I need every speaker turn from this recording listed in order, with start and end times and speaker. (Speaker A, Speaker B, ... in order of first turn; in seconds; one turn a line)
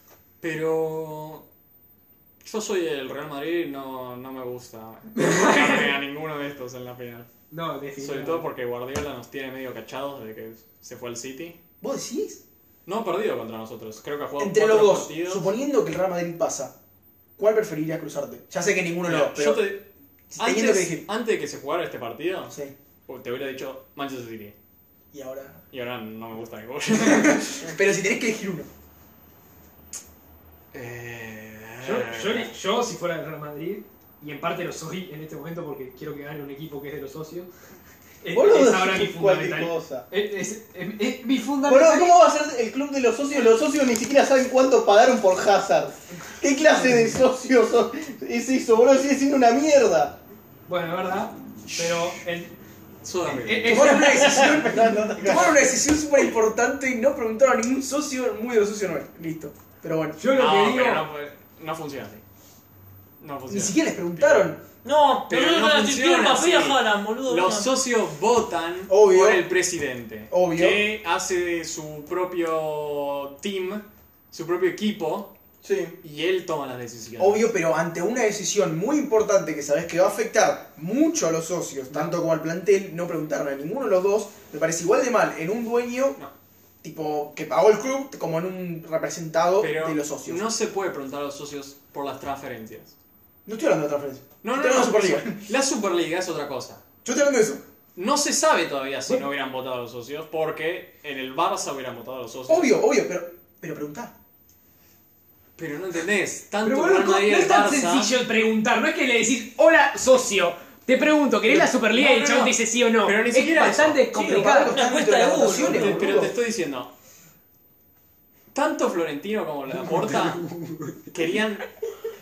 Speaker A: 0.4-1.4
Speaker A: 2.4-7.3
Speaker B: 5.2-5.9
Speaker B: 7.5-8.5
Speaker A: 8.0-11.6
Speaker C: 11.8-12.4
Speaker A: 12.9-15.5
Speaker C: 14.4-16.7
Speaker C: 17.4-19.7
Speaker A: 19.1-22.6
Speaker C: 20.3-21.1
Speaker A: 23.1-24.5
Speaker C: 25.1-25.6
Speaker A: 25.7-27.8
Speaker C: 26.9-28.7
Speaker A: 30.7-32.5
Speaker B: 31.8-37.5
Speaker B: 38.2-42.2
Speaker D: 38.3-40.0
Speaker D: 41.7-50.2
Speaker B: 50.7-52.5
Speaker A: 51.7-52.2
Speaker A: 53.0-53.8
Speaker B: 53.2-54.6
Speaker C: 53.7-60.2
Speaker D: 54.1-55.7
Speaker B: 60.2-61.0
Speaker A: 60.3-62.2
Speaker A: 63.2-64.5
Speaker C: 63.5-64.6
Speaker E: 64.8-67.7
Speaker A: 65.3-75.3
Speaker C: 68.9-69.5
Speaker C: 70.3-70.8
Speaker D: 75.6-76.0
Speaker A: 76.0-77.5
Speaker C: 77.2-86.2
Speaker C: 86.8-90.4
Speaker A: 89.6-93.0
Speaker C: 93.5-95.4
Speaker A: 94.4-96.8
Speaker C: 97.0-97.6
Speaker A: 98.0-102.7
Speaker C: 102.5-104.1
Speaker A: 105.6-108.1
Speaker B: 106.6-114.8
Speaker A: 111.5-114.0
Speaker E: 114.1-116.0
Speaker C: 114.3-116.3
Speaker A: 115.6-116.9
Speaker A: 118.5-121.7
Speaker B: 120.4-120.8